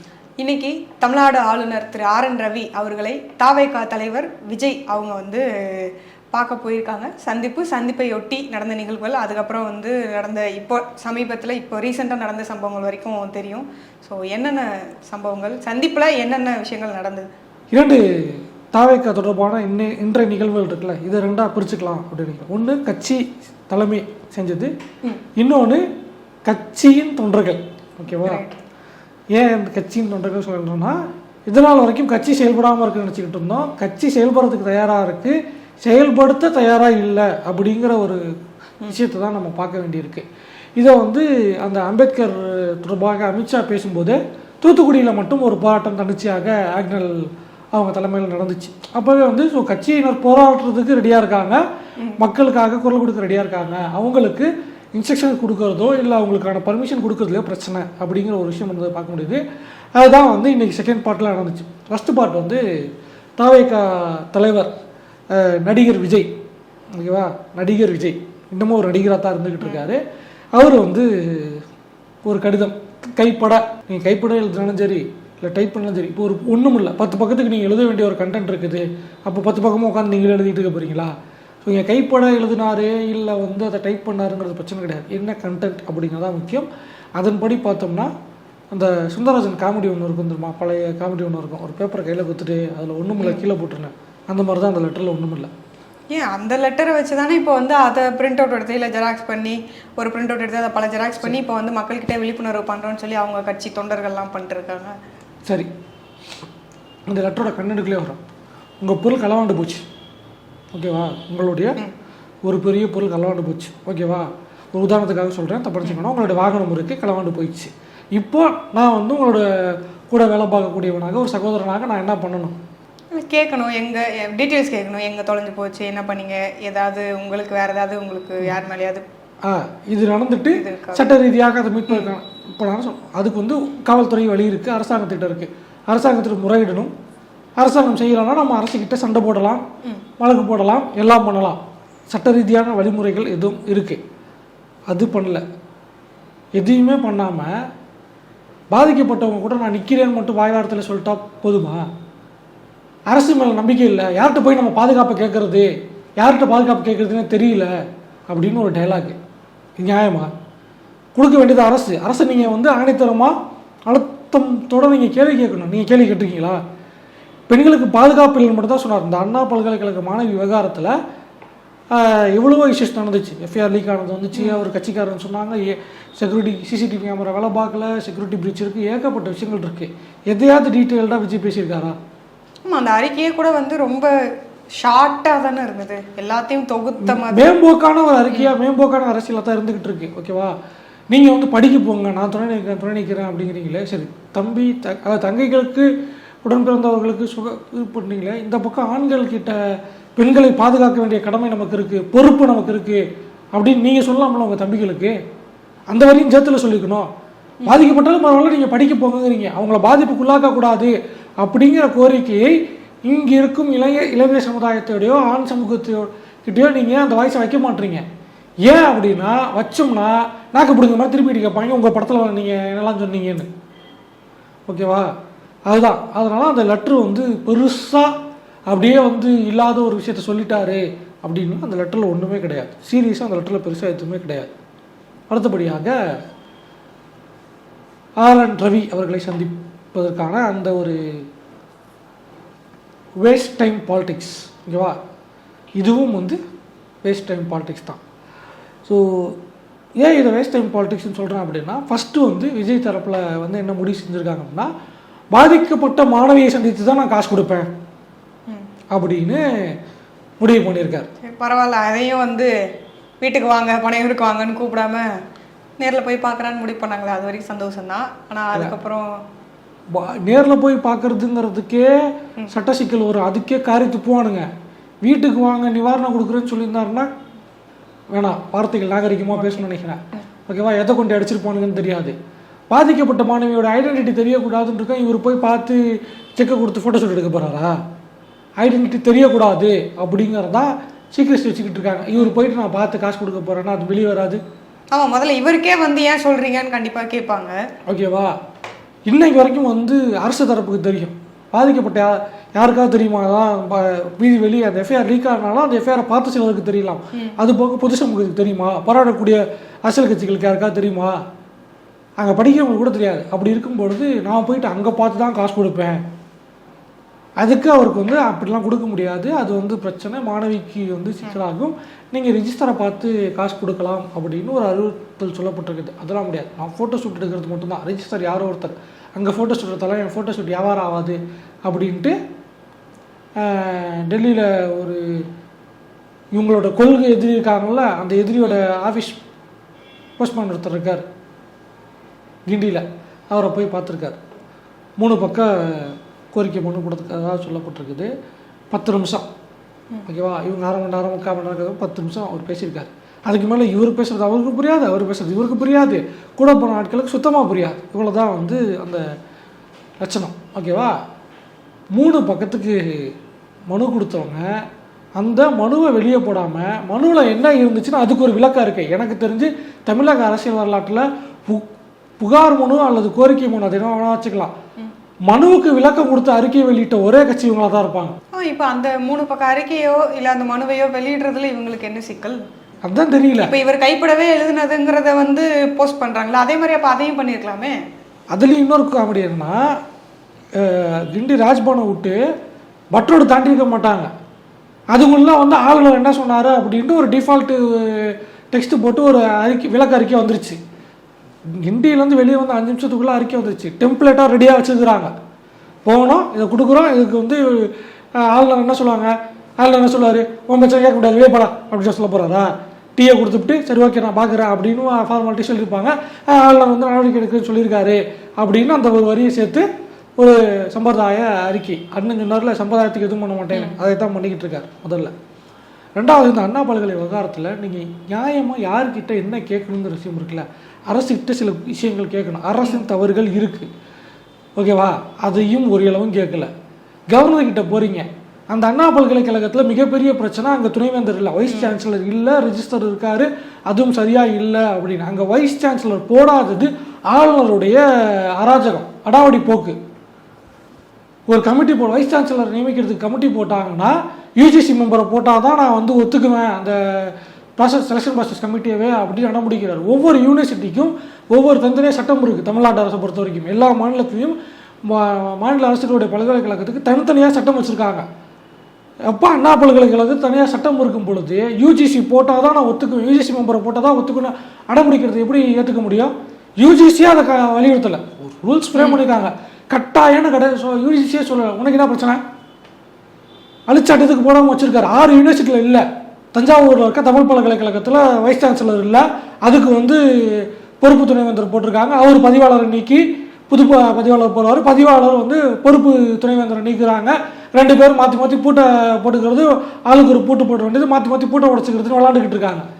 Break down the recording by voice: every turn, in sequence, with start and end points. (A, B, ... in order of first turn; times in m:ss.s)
0:00.4-0:17.3 A
0:17.7-0:24.7 B
0:25.4-0:25.8 B
0:26.4-0:28.4 B
0:28.2-0:28.5 A
0:29.3-0:38.2 B
0:38.9-0:40.2 B
0:40.8-0:47.2 B
0:47.7-0:51.6 B
0:52.2-0:59.4 B
1:00.0-1:02.6 B
1:03.4-1:04.7 B
1:05.3-1:06.3 B
1:06.9-1:10.0 B
1:10.5-1:11.6 B
1:12.2-1:28.1 B
1:28.7-1:35.5 B
1:33.2-1:33.4 A
1:36.1-1:45.0 A
1:47.1-1:48.2 B
1:48.8-1:49.8 B
1:50.7-1:51.8 B
1:52.4-2:02.6 B
2:03.1-2:09.0 A
2:09.4-2:16.9 B
2:10.5-2:11.1 A
2:17.6-2:19.6 B
2:20.2-2:24.0 B
2:24.9-2:25.4 B
2:26.6-2:27.5 B
2:28.7-2:31.9 B
2:33.1-2:37.7 B
2:38.3-2:39.2 B
2:39.8-2:40.3 B
2:41.1-2:43.3 B
2:43.8-2:46.6 B
2:47.5-2:51.0 B
2:51.9-3:02.0 B
2:54.3-2:54.6 A
3:02.6-3:04.1 A
3:04.8-3:07.5 A
3:07.0-3:10.5 B
3:11.1-3:15.9 B
3:16.4-3:19.6 B
3:20.2-3:23.0 B
3:23.5-3:25.1 B
3:25.9-3:27.1 B
3:27.6-3:27.9 A
3:27.7-3:38.0 B
3:38.6-3:43.5 B
3:44.7-3:45.1 B
3:45.7-3:48.1 B
3:48.7-3:54.5 B
3:55.3-3:55.9 B
3:58.2-4:01.2 B
4:03.2-4:05.0 B
4:05.8-4:06.4 B
4:07.0-4:08.0 B
4:08.8-4:09.4 B
4:10.0-4:14.7 B
4:15.3-4:17.7 B
4:18.9-4:19.4 B
4:20.4-4:21.1 B
4:21.2-4:22.5 A
4:23.2-4:25.0 A
4:25.8-4:29.1 A
4:29.9-4:34.5 B
4:35.0-4:37.1 B
4:38.1-4:42.1 B
4:39.3-4:39.6 A
4:42.7-4:45.8 B
4:46.4-4:47.7 B
4:48.6-4:54.4 B
4:54.9-4:57.6 A
4:57.9-4:58.3 B
4:59.0-5:11.2 B
5:12.2-5:16.0 B
5:17.4-5:32.2 B
5:33.4-5:35.2 B
5:36.3-5:39.2 B
5:40.2-5:41.0 B
5:42.5-5:44.2 B
5:45.0-5:48.1 B
5:48.7-5:49.3 B
5:50.0-5:59.0 B
6:00.0-6:00.9 B
6:01.9-6:03.1 B
6:03.7-6:04.5 B
6:05.2-6:11.7 B
6:12.2-6:14.5 B
6:15.3-6:18.2 B
6:18.3-6:22.4 A
6:22.8-6:23.5 B
6:23.4-6:27.8 A
6:28.3-6:29.6 B
6:30.5-6:32.2 B
6:32.9-6:34.1 B
6:34.9-6:40.6 B
6:41.6-6:45.1 B
6:45.8-6:59.7 B
7:00.2-7:05.1 B
7:06.0-7:13.7 B
7:14.6-7:16.5 B
7:17.1-7:29.8 B
7:21.5-7:21.7 A
7:31.3-7:44.4 B
7:44.9-7:48.0 B
7:49.1-8:02.2 B
7:58.8-7:59.0 A
8:03.7-8:22.6 B